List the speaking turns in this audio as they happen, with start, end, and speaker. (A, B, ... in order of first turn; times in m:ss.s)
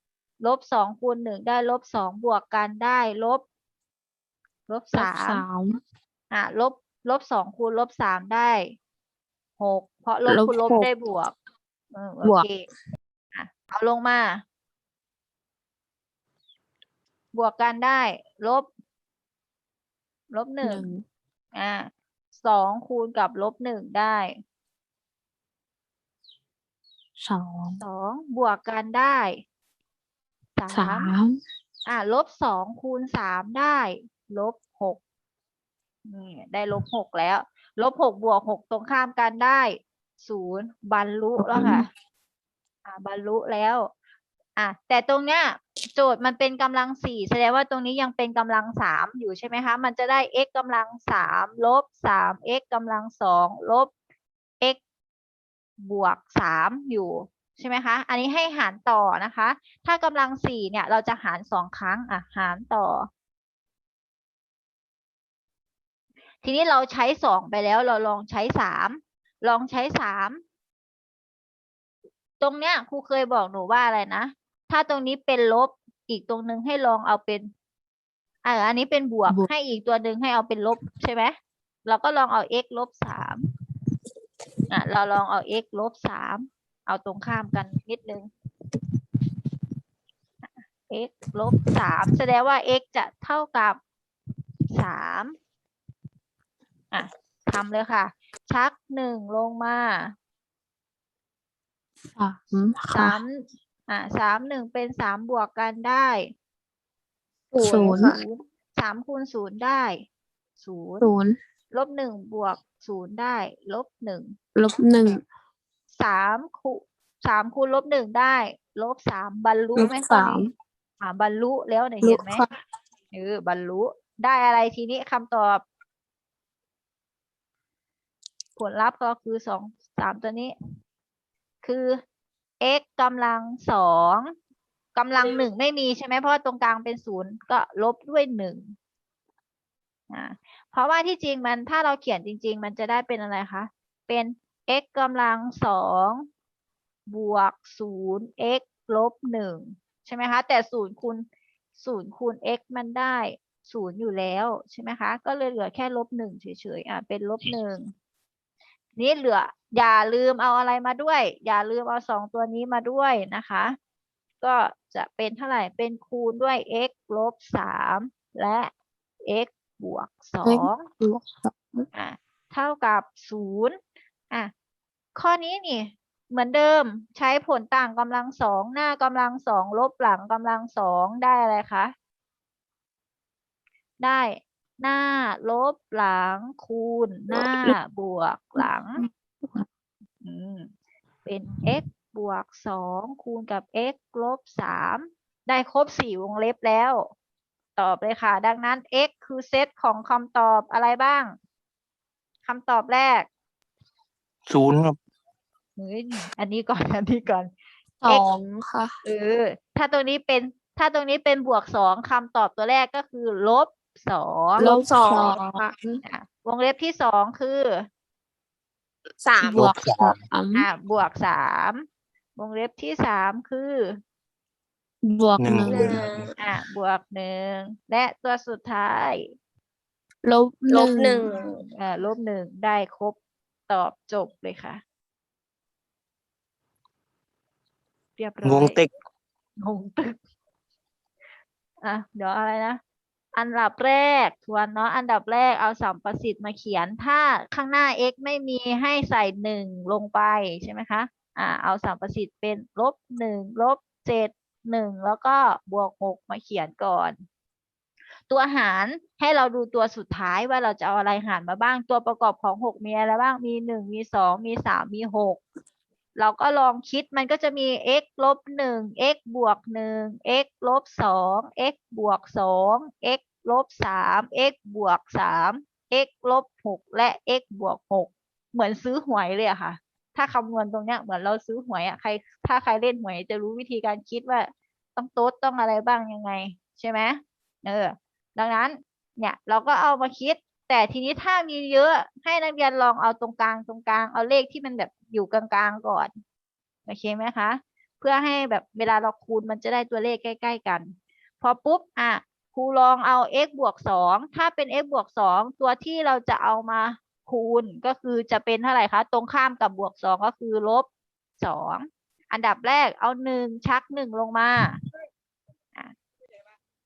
0:00.4-0:03.4 A
0:04.7-0:05.4 A
0:05.0-0:05.8 B
0:06.3-0:08.6 A
0:09.6-0:11.3 A
0:10.2-0:10.9 B
0:11.9-0:12.7 A
0:13.3-0:14.4 A
0:17.3-0:18.7 A
0:20.3-0:20.9 A
0:20.6-0:21.0 B
0:21.5-0:24.3 A
0:27.2-0:27.8 B
0:27.8-0:29.4 A
0:30.6-0:31.1 A
0:30.7-0:31.4 B
0:31.9-0:35.0 A
0:36.0-0:41.9 A
0:41.4-0:41.8 B
0:42.8-0:43.9 A
0:44.6-0:53.9 A
0:55.8-1:03.1 A
1:06.4-1:10.4 A
1:12.4-1:17.5 A
1:18.4-1:21.3 A
1:21.8-1:23.5 A
1:24.7-1:28.3 A
1:30.9-1:33.8 A
1:34.7-1:35.3 A
1:36.9-1:40.1 A
1:42.1-1:43.2 B
1:42.9-1:46.3 A
1:47.5-1:48.2 B
1:47.6-1:50.0 A
1:50.6-1:51.0 A
1:51.0-1:51.4 B
1:51.7-1:54.3 A
1:54.5-1:55.2 B
1:55.9-2:00.5 A
1:59.8-2:00.5 B
2:01.0-2:02.4 A
2:02.0-2:02.6 B
2:03.1-2:05.6 A
2:08.6-2:10.5 A
2:11.6-2:12.0 A
2:12.6-2:14.3 A
2:15.0-2:18.7 A
2:20.1-2:26.2 A
2:27.1-2:31.2 A
2:31.8-2:37.9 A
2:39.0-2:43.8 A
2:44.4-2:48.7 A
2:49.2-2:50.9 A
2:50.4-2:51.8 B
2:51.9-2:53.8 A
2:55.2-3:01.9 A
3:04.0-3:09.0 A
3:10.2-3:10.7 A
3:11.2-3:17.1 A
3:17.8-3:21.3 A
3:22.4-3:23.3 A
3:24.5-3:25.0 C
3:25.8-3:27.5 A
3:28.0-3:28.9 B
3:29.0-3:34.7 A
3:34.6-3:36.0 B
3:34.8-3:35.4 D
3:36.0-3:37.9 A
3:39.2-3:39.6 D
3:39.4-3:40.7 B
3:39.5-3:40.2 C
3:40.5-3:41.8 A
3:42.4-3:44.0 A
3:45.0-3:46.0 B
3:45.4-3:46.3 C
3:45.7-3:46.3 D
3:46.4-3:49.2 A
3:50.2-3:51.3 B
3:50.7-3:51.6 D
3:51.6-3:53.2 A
3:53.7-3:54.8 A
3:58.2-3:58.8 A
3:58.4-3:58.9 C
3:59.6-4:00.2 A
4:01.8-4:02.8 A
4:03.3-4:17.2 A
4:18.3-4:25.4 A
4:26.2-4:56.1 A
4:56.9-5:10.9 A
5:11.4-5:14.8 A